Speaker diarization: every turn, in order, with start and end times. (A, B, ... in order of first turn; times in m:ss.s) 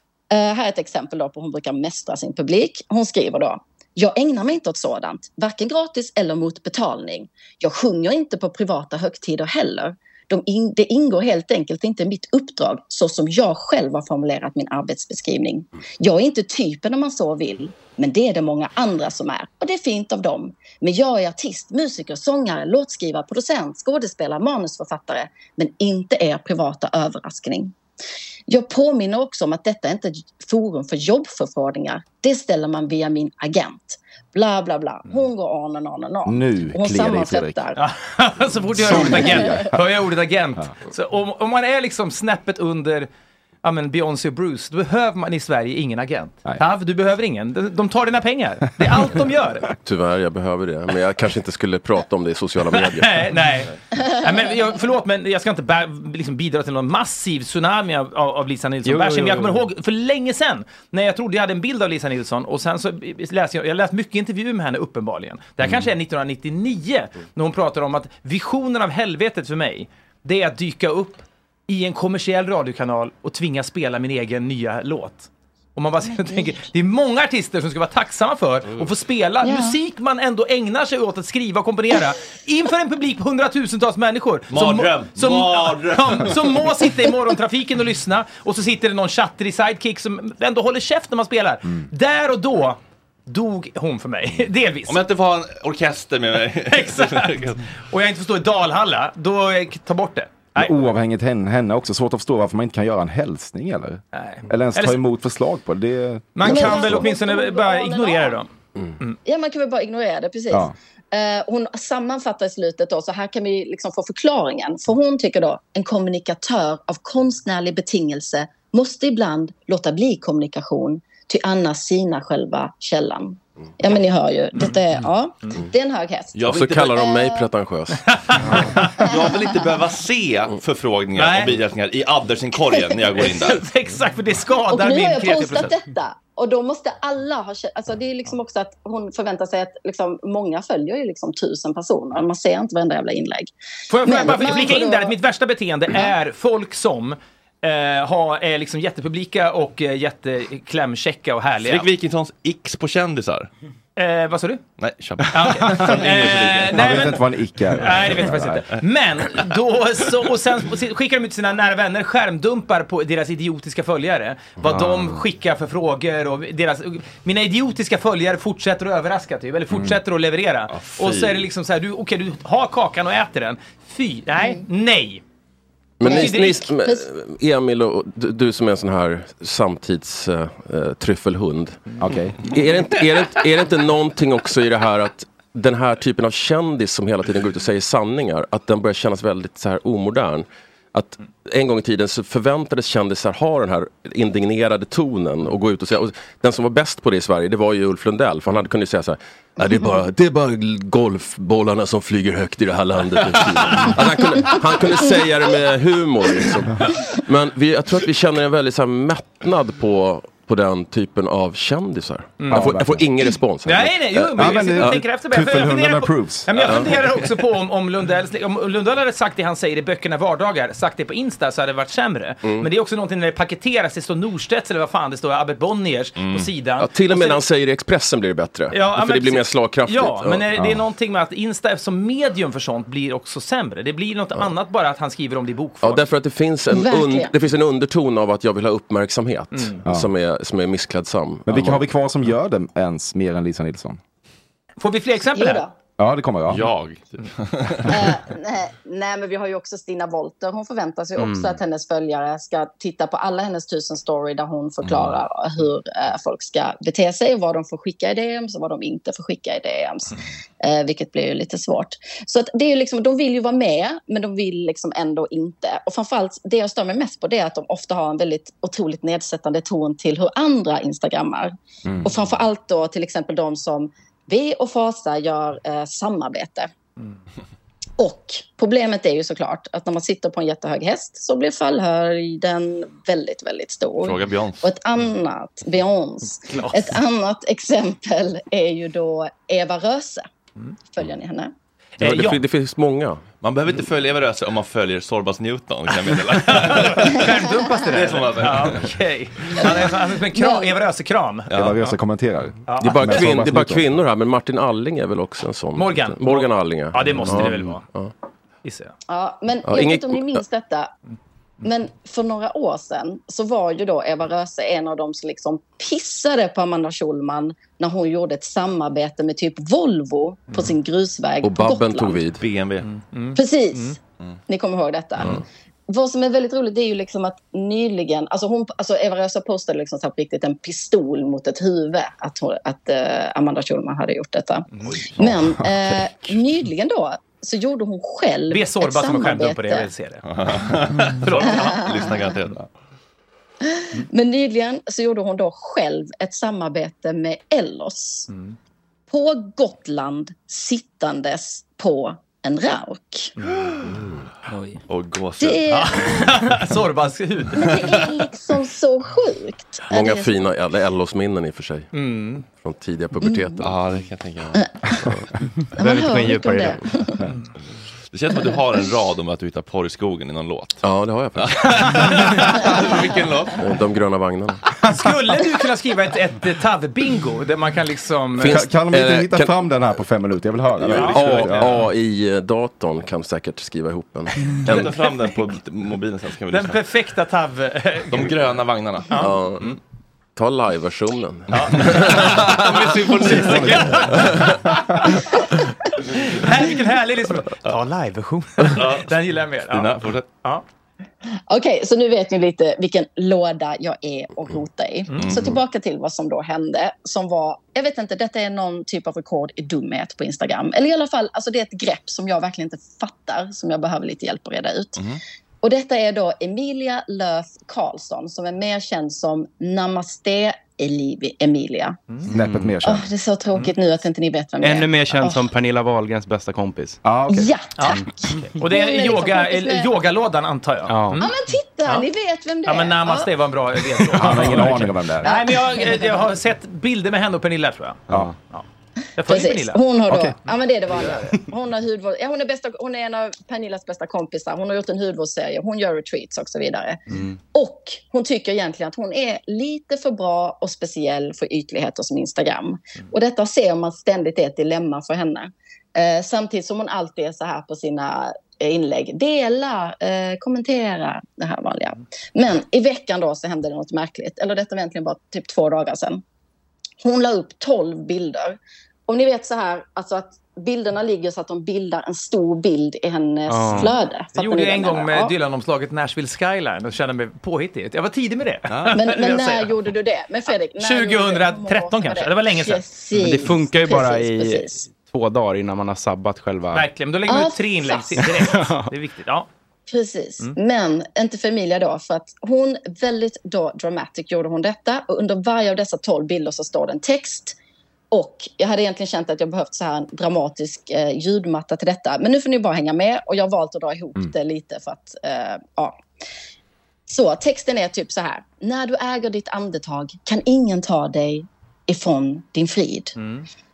0:00.3-0:27.7 A
0:28.5-0:37.8 A
0:36.2-0:37.6 B
0:37.8-0:43.1 C
0:38.8-0:39.7 B
0:38.9-0:39.6 A
0:43.6-0:49.7 C
0:49.8-0:53.4 D
0:52.7-1:35.0 C
0:58.8-0:59.6 E
1:16.1-1:16.6 A
1:19.4-1:19.8 A
1:24.5-1:26.6 F
1:34.9-1:37.6 F
1:36.7-1:40.7 C
1:40.6-1:47.0 B
1:44.1-1:45.0 C
1:46.3-1:48.5 C
1:46.4-1:48.4 A
1:49.2-2:07.5 A
2:06.3-2:06.9 F
2:06.5-2:08.2 D
2:08.0-2:09.0 C
2:09.0-2:13.6 F
2:09.0-2:09.6 A
2:11.2-2:11.5 C
2:13.2-2:15.7 C
2:14.7-2:25.2 A
2:23.9-2:31.8 C
2:31.6-2:33.5 F
2:34.0-2:34.6 C
2:34.8-2:37.1 F
2:35.3-2:55.2 C
2:35.8-2:38.6 B
2:50.7-2:51.4 F
2:56.0-3:01.9 D
2:56.0-2:57.0 A
2:56.0-2:56.7 C
3:02.0-3:02.4 B
3:02.4-3:35.0 D
3:19.6-3:20.0 A
3:32.4-3:32.7 C
3:32.5-3:33.0 B
3:33.6-3:47.4 C
3:34.3-3:36.5 B
3:36.6-3:37.1 D
3:42.4-3:42.7 D
3:46.2-3:46.5 F
3:46.8-3:50.5 D
3:48.7-3:56.0 C
3:55.8-4:01.9 D
3:56.7-3:57.3 A
3:59.5-3:59.8 C
4:01.5-4:04.0 B
4:04.8-4:05.6 C
4:05.3-4:05.7 A
4:06.0-4:06.7 B
4:06.5-4:08.2 F
4:07.9-4:36.7 A
4:11.2-4:11.6 E
4:38.0-4:50.2 A
4:44.0-4:44.6 F
4:46.4-4:46.9 C
4:50.9-4:51.5 A
4:52.0-4:52.4 C
4:52.0-4:53.2 D
4:53.4-4:58.9 F
4:56.1-5:01.9 C
4:59.5-4:59.9 F
5:00.3-5:00.7 A
5:01.5-5:03.9 B
5:02.7-5:03.2 C
5:02.8-5:08.1 D
5:05.8-5:07.8 C
5:08.6-5:08.9 C
5:09.1-5:10.9 A
5:09.6-5:10.4 D
5:11.6-5:22.2 A
5:21.4-5:22.4 D
5:22.3-5:22.9 F
5:22.8-5:23.9 C
5:23.3-5:39.9 A
5:35.2-5:36.0 B
5:38.5-5:40.2 C
5:40.2-5:42.7 F
5:41.2-5:41.9 C
5:41.5-5:42.3 A
5:43.6-5:48.3 A
5:48.3-5:48.5 C
5:49.1-5:53.3 A
5:53.4-5:53.7 C
5:54.9-5:55.6 F
5:55.4-5:56.3 A
5:55.7-5:57.8 C
5:57.6-6:00.5 A
5:57.6-5:58.1 F
5:59.9-6:01.9 D
6:01.9-6:02.4 C
6:02.4-6:03.8 D
6:03.2-6:03.6 A
6:03.6-6:04.7 F
6:04.5-6:05.0 A
6:05.0-6:05.3 D
6:05.8-6:06.8 E
6:05.8-6:07.2 A
6:08.1-6:10.8 F
6:10.8-6:12.1 D
6:11.3-6:13.6 F
6:11.8-6:12.6 C
6:13.5-6:14.8 D
6:14.9-6:18.7 C
6:18.4-6:19.6 D
6:18.4-6:21.8 B
6:20.8-6:24.9 D
6:20.8-6:21.8 C
6:24.6-6:26.8 F
6:26.5-6:28.4 C
6:28.1-6:29.1 F
6:29.1-6:29.8 C
6:29.1-6:29.8 D
6:30.4-6:32.5 D
6:31.5-6:40.6 C
6:32.2-6:34.0 F
6:38.6-6:40.2 F
6:41.5-6:55.0 A
6:45.2-6:45.6 F
6:55.6-7:02.0 A
7:02.3-7:02.7 E
7:02.3-7:03.0 B
7:02.8-7:05.5 A
7:04.6-7:07.0 E
7:07.0-7:07.5 B
7:07.3-7:09.9 A
7:07.8-7:11.3 C
7:10.9-7:11.2 E
7:11.2-7:13.3 A
7:12.6-7:18.6 C
7:14.1-7:15.3 B
7:15.2-7:16.2 A
7:18.1-7:18.3 E
7:19.2-7:20.3 C
7:19.2-7:27.0 A
7:27.1-7:27.4 E
7:27.5-7:46.2 A
7:47.0-7:55.3 A
7:53.5-7:54.0 E
7:53.8-7:59.8 C
7:58.7-7:59.0 F
7:58.9-8:04.8 A
8:00.8-8:02.8 C
8:03.1-8:06.9 E
8:06.7-8:09.5 C
8:07.3-8:08.2 A
8:08.2-8:08.9 E
8:09.9-8:17.6 A
8:18.1-8:26.0 A
8:27.1-8:33.1 A
8:33.2-8:33.4 C